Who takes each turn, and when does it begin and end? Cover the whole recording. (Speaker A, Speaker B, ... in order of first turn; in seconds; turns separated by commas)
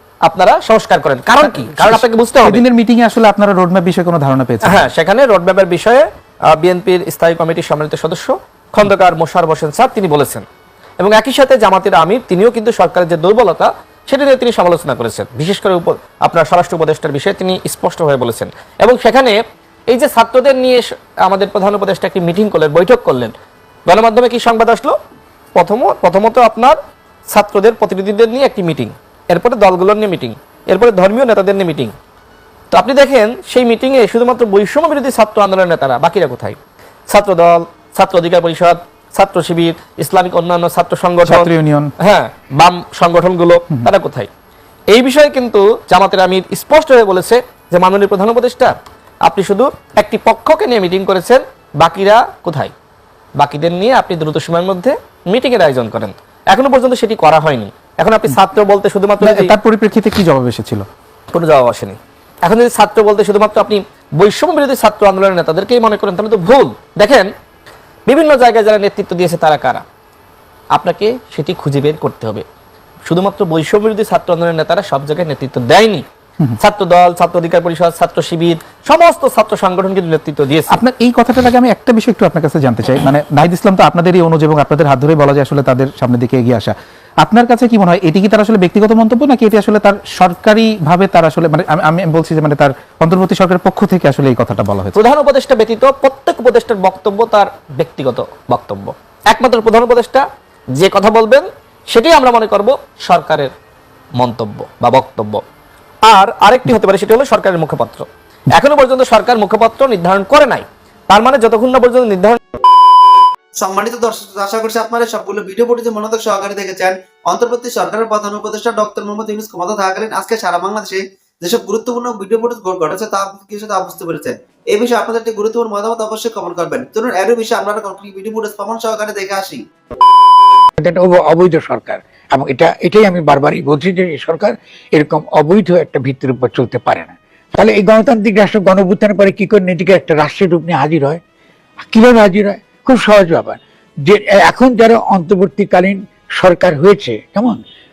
Speaker A: 0.2-2.6, Speaker B: 1.4-4.9, Speaker A: 4.6-10.4, Speaker A: 11.0-19.4, Speaker A: 19.9-23.3, Speaker A: 23.9-24.9, Speaker A: 25.6-26.8, Speaker A: 27.3-31.9, Speaker A: 32.7-36.6, Speaker A: 37.1-44.3, Speaker B: 41.2-41.9, Speaker A: 44.9-52.7, Speaker A: 53.4-59.5, Speaker B: 59.2-60.9, Speaker A: 61.3-67.3, Speaker A: 68.1-69.8, Speaker A: 70.7-72.4, Speaker A: 73.1-76.0, Speaker A: 76.6-80.8, Speaker B: 80.7-95.0, Speaker A: 95.0-103.5, Speaker A: 104.2-105.4, Speaker A: 106.0-112.4, Speaker C: 113.6-129.6, Speaker D: 130.8-141.2, Speaker D: 141.9-147.6